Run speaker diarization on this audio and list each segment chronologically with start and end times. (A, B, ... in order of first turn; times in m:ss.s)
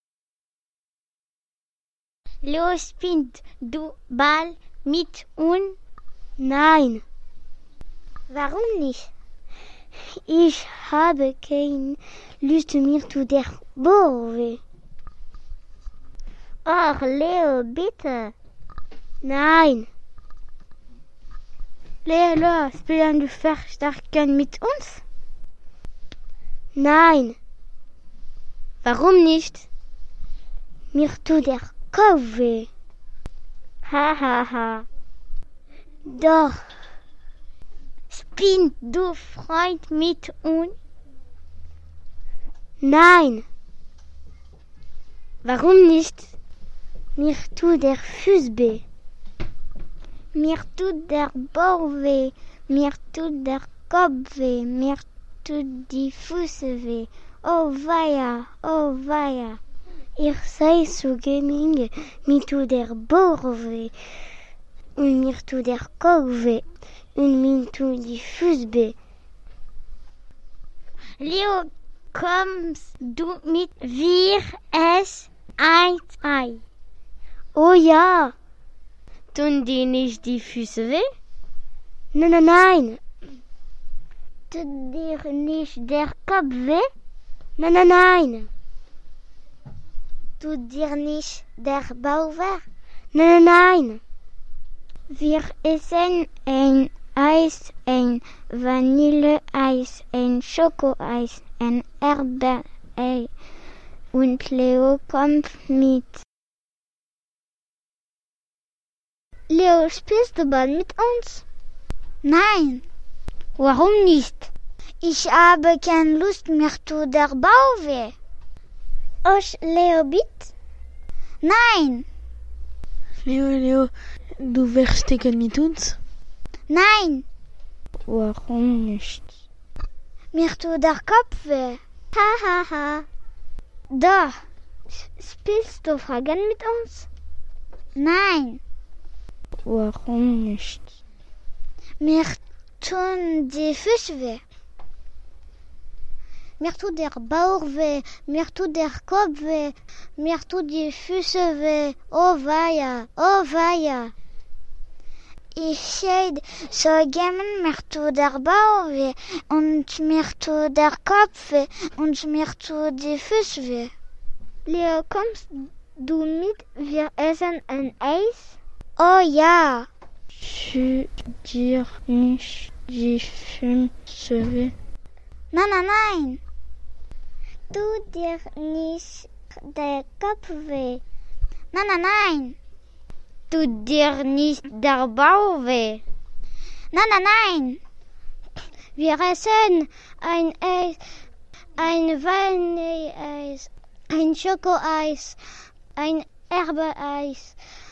0:02.4-0:05.8 A
0:06.4-0:07.0 A
0:08.3-0:09.1 A
0:10.3-0:14.6 A
0:16.6-0:18.3 A
0:19.2-0:19.9 A
0:22.0-0:25.0 A
0:26.8-0:27.3 A
0:28.8-0:29.6 B
0:30.9-0:32.7 A
0:33.9-0:34.8 A
0:36.0-0:36.6 A
0:38.1-0:40.7 A
0:42.8-0:43.4 A
0:45.4-0:46.2 A
0:47.2-0:48.8 A
0:50.3-0:59.6 A
1:00.2-1:03.9 A
1:05.0-1:06.6 A
1:07.2-1:08.9 A
1:11.2-1:16.6 A
1:17.5-1:18.3 A
1:19.3-1:21.1 B
1:22.1-1:23.0 A
1:24.5-1:26.9 A
1:27.6-1:28.5 A
1:30.4-1:34.0 A
1:35.1-1:43.2 A
1:44.1-1:46.0 A
1:49.5-1:51.4 A
1:52.2-1:52.8 A
1:53.6-1:54.5 A
1:55.0-1:58.1 A
1:59.2-2:00.5 A
2:01.4-2:02.0 A
2:03.2-2:05.9 C
2:06.7-2:07.2 A
2:10.3-2:13.0 A
2:13.9-2:14.4 A
2:15.0-2:17.1 A
2:18.0-2:18.6 A
2:22.0-2:24.4 A
2:26.6-2:34.1 A
2:35.6-2:43.9 A
2:44.6-2:49.9 A
2:50.4-2:51.9 C
2:52.1-2:52.9 A
2:54.1-2:54.7 C
2:55.5-2:56.4 A
2:57.7-3:01.0 A
3:01.7-3:02.5 A
3:03.5-3:06.0 A
3:06.9-3:07.8 A
3:09.0-3:11.0 A
3:11.8-3:15.4 A
3:16.0-3:17.6 A